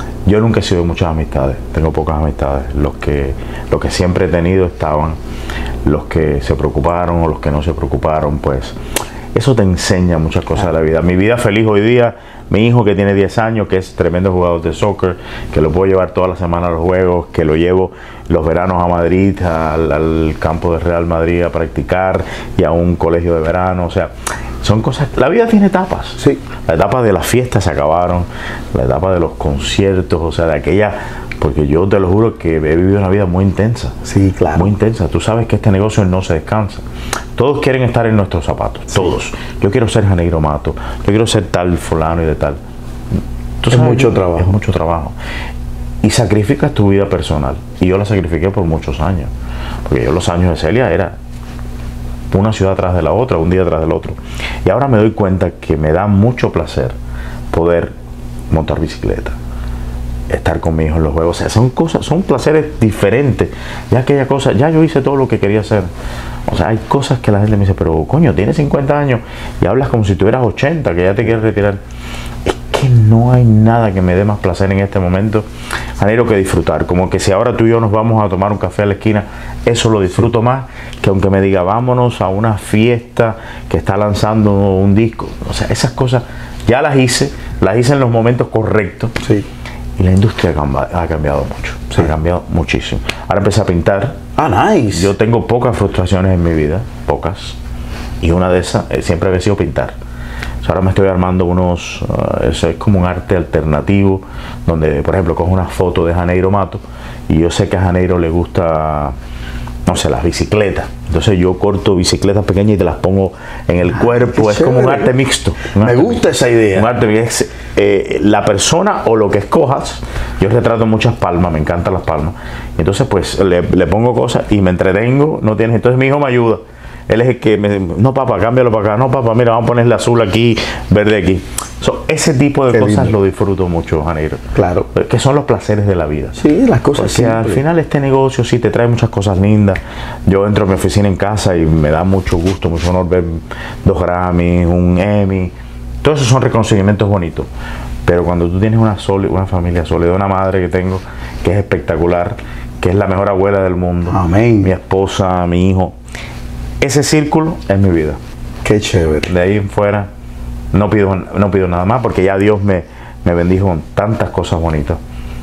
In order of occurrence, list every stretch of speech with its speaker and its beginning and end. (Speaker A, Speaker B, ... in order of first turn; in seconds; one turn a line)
Speaker A: 0.2-5.2
Speaker A: 5.8-8.8
Speaker A: 9.3-33.9
Speaker B: 34.0-34.7
Speaker A: 34.5-36.8
Speaker A: 37.4-42.6
Speaker A: 43.6-45.1
Speaker B: 43.7-44.5
Speaker A: 46.0-49.3
Speaker A: 49.9-51.2
Speaker A: 52.3-57.0
Speaker A: 57.5-58.0
Speaker A: 58.5-59.4
Speaker A: 60.3-65.9
Speaker A: 66.5-71.8
Speaker A: 72.5-75.5
Speaker A: 76.0-89.1
Speaker B: 89.2-89.5
Speaker A: 90.0-94.2
Speaker B: 94.4-95.1
Speaker A: 94.9-97.6
Speaker A: 98.2-100.0
Speaker A: 100.6-109.1
Speaker A: 109.9-134.4
Speaker B: 114.0-115.1
Speaker B: 115.8-116.9
Speaker B: 132.7-133.1
Speaker B: 134.6-134.9
Speaker A: 134.9-136.4
Speaker B: 136.3-137.6
Speaker A: 136.9-147.5
Speaker A: 148.1-155.9
Speaker B: 154.1-154.7
Speaker A: 156.8-158.2
Speaker B: 158.6-159.3
Speaker A: 159.3-160.1
Speaker A: 160.7-165.0